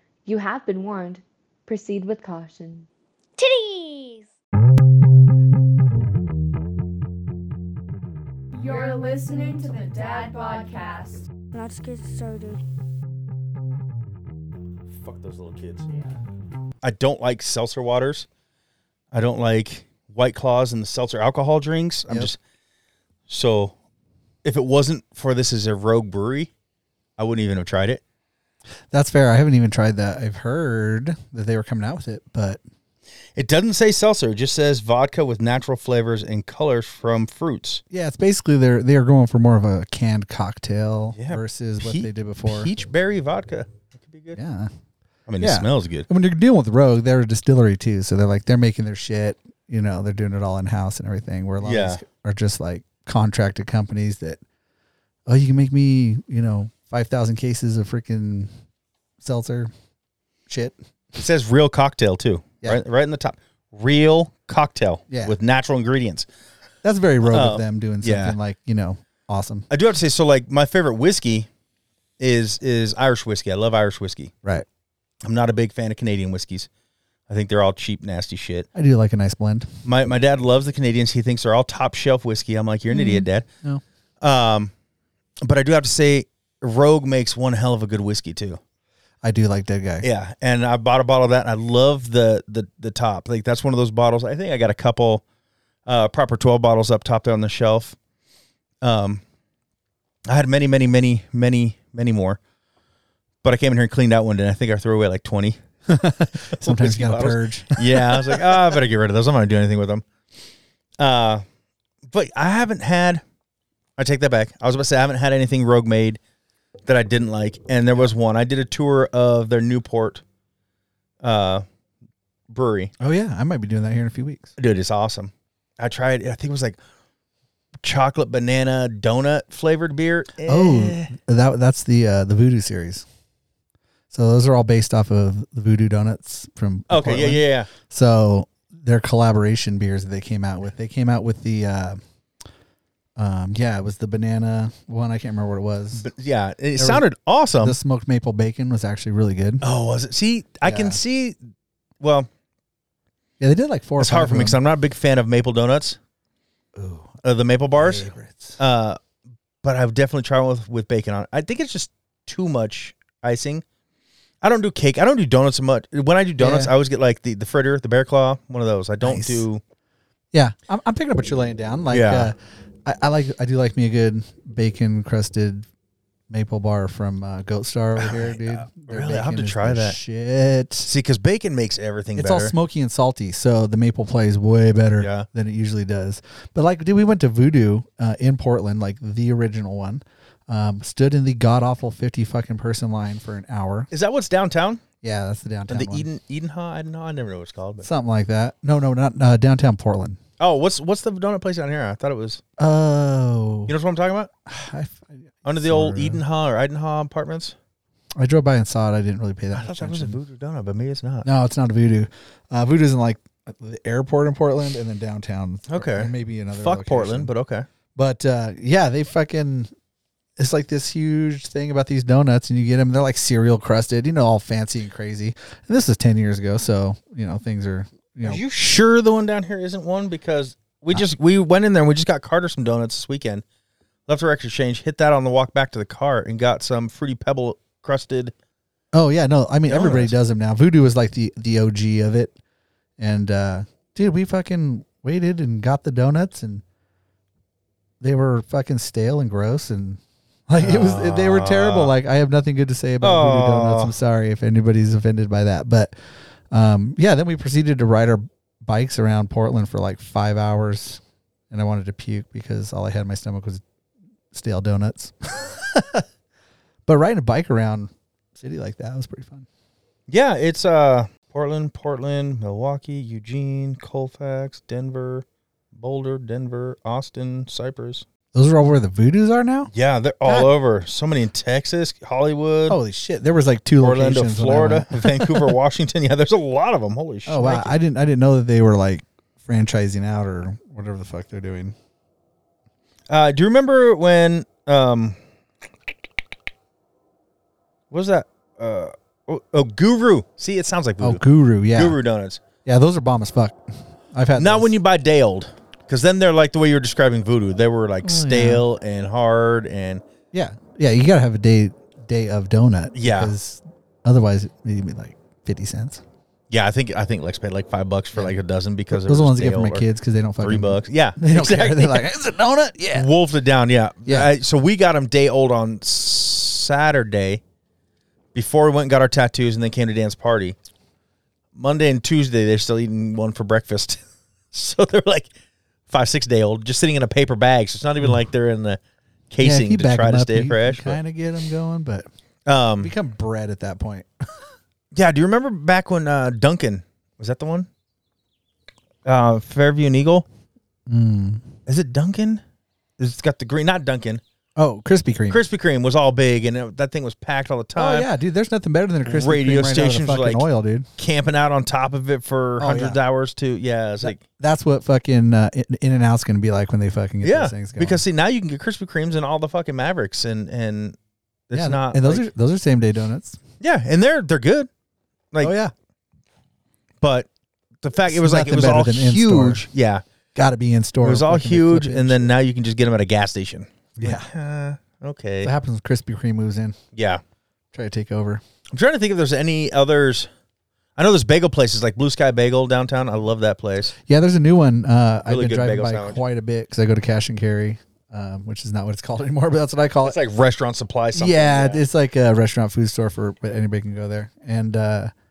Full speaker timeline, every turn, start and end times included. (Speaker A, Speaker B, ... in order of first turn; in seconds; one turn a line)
Speaker A: 0.2-2.9
Speaker B: 3.4-4.2
Speaker C: 8.5-11.2
Speaker B: 11.5-12.6
Speaker D: 15.0-15.9
Speaker D: 16.8-18.3
Speaker D: 19.1-22.4
Speaker D: 23.3-23.7
Speaker D: 24.4-26.5
Speaker D: 27.2-28.0
Speaker E: 28.9-32.6
Speaker D: 33.3-37.8
Speaker E: 37.9-42.7
Speaker D: 41.1-44.4
Speaker E: 44.3-44.7
Speaker D: 45.3-46.1
Speaker E: 45.4-54.4
Speaker D: 51.6-52.0
Speaker E: 55.3-58.5
Speaker E: 59.2-59.7
Speaker E: 60.5-60.8
Speaker D: 61.2-66.3
Speaker E: 65.1-65.4
Speaker E: 66.8-69.7
Speaker D: 67.2-68.4
Speaker D: 69.7-71.5
Speaker D: 72.2-74.3
Speaker D: 75.2-76.7
Speaker D: 77.3-78.7
Speaker E: 78.8-79.7
Speaker D: 79.8-83.5
Speaker E: 82.9-83.8
Speaker D: 84.2-84.7
Speaker D: 85.4-88.6
Speaker E: 89.2-90.1
Speaker D: 90.0-95.2
Speaker D: 95.9-98.0
Speaker D: 98.8-99.2
Speaker D: 100.3-102.4
Speaker D: 103.4-105.6
Speaker E: 105.9-108.5
Speaker D: 106.5-110.0
Speaker D: 111.0-111.4
Speaker D: 112.0-113.2
Speaker D: 114.0-116.2
Speaker D: 116.9-120.2
Speaker D: 121.2-121.6
Speaker D: 122.5-122.9
Speaker E: 123.0-124.5
Speaker D: 124.6-126.8
Speaker D: 127.8-131.1
Speaker E: 130.4-133.0
Speaker E: 134.1-142.0
Speaker D: 136.9-137.7
Speaker E: 143.2-146.1
Speaker D: 145.9-147.8
Speaker E: 146.8-147.0
Speaker E: 147.6-149.6
Speaker D: 149.6-151.4
Speaker E: 150.6-151.0
Speaker D: 152.0-152.3
Speaker E: 153.4-154.6
Speaker D: 154.0-156.0
Speaker E: 156.8-157.1
Speaker D: 157.2-159.0
Speaker E: 157.8-158.6
Speaker D: 159.6-163.6
Speaker D: 164.4-169.6
Speaker E: 166.4-166.7
Speaker E: 169.0-169.4
Speaker E: 170.3-175.7
Speaker D: 171.9-172.3
Speaker E: 176.3-180.9
Speaker D: 177.9-180.0
Speaker D: 180.8-182.5
Speaker E: 182.2-193.9
Speaker D: 185.0-185.3
Speaker D: 193.9-194.8
Speaker E: 195.0-196.1
Speaker D: 195.7-197.9
Speaker E: 197.8-200.2
Speaker D: 200.4-202.4
Speaker E: 202.6-203.7
Speaker D: 203.7-204.3
Speaker E: 204.5-206.2
Speaker D: 205.4-207.6
Speaker E: 208.2-210.2
Speaker D: 209.5-211.3
Speaker E: 211.2-217.3
Speaker D: 215.7-217.7
Speaker E: 217.9-219.7
Speaker E: 220.4-228.4
Speaker D: 228.2-233.4
Speaker D: 234.1-238.3
Speaker E: 238.9-242.3
Speaker D: 239.7-240.1
Speaker E: 243.0-246.6
Speaker E: 248.0-255.9
Speaker D: 250.6-251.9
Speaker D: 253.0-253.9
Speaker E: 256.5-261.0
Speaker E: 261.5-263.6
Speaker E: 264.3-266.0
Speaker E: 266.9-269.4
Speaker D: 270.1-278.1
Speaker E: 278.3-279.7
Speaker D: 279.7-282.8
Speaker E: 280.2-280.5
Speaker E: 282.7-285.5
Speaker D: 283.8-287.8
Speaker E: 287.3-291.8
Speaker D: 293.1-295.2
Speaker D: 297.9-301.2
Speaker E: 301.0-302.0
Speaker D: 301.7-302.4
Speaker E: 302.6-303.6
Speaker E: 304.1-304.7
Speaker D: 304.4-310.0
Speaker E: 308.0-308.6
Speaker E: 310.3-316.0
Speaker D: 312.9-313.3
Speaker D: 316.5-319.8
Speaker E: 318.9-323.1
Speaker D: 320.4-322.1
Speaker D: 322.9-327.4
Speaker E: 324.0-324.3
Speaker D: 328.3-330.6
Speaker D: 331.5-335.3
Speaker D: 335.9-341.0
Speaker E: 339.4-342.1
Speaker D: 342.4-342.9
Speaker E: 342.8-344.1
Speaker D: 344.9-347.7
Speaker D: 349.0-350.2
Speaker E: 350.9-351.5
Speaker D: 351.7-352.4
Speaker D: 353.0-354.2
Speaker E: 354.6-355.4
Speaker D: 355.3-358.1
Speaker E: 357.8-360.9
Speaker D: 359.0-360.5
Speaker D: 361.0-364.2
Speaker E: 362.6-363.0
Speaker E: 364.0-368.0
Speaker D: 367.2-371.0
Speaker D: 371.5-372.3
Speaker E: 371.5-373.4
Speaker D: 373.6-374.7
Speaker E: 375.4-375.7
Speaker D: 377.0-377.3
Speaker D: 377.8-380.0
Speaker E: 378.1-379.6
Speaker E: 380.3-382.3
Speaker D: 381.0-385.5
Speaker E: 384.0-384.3
Speaker E: 385.4-386.8
Speaker D: 386.9-387.2
Speaker E: 387.7-388.4
Speaker D: 388.7-390.3
Speaker D: 390.9-393.9
Speaker E: 394.1-400.2
Speaker D: 395.2-396.2
Speaker D: 400.0-401.8
Speaker E: 401.1-405.1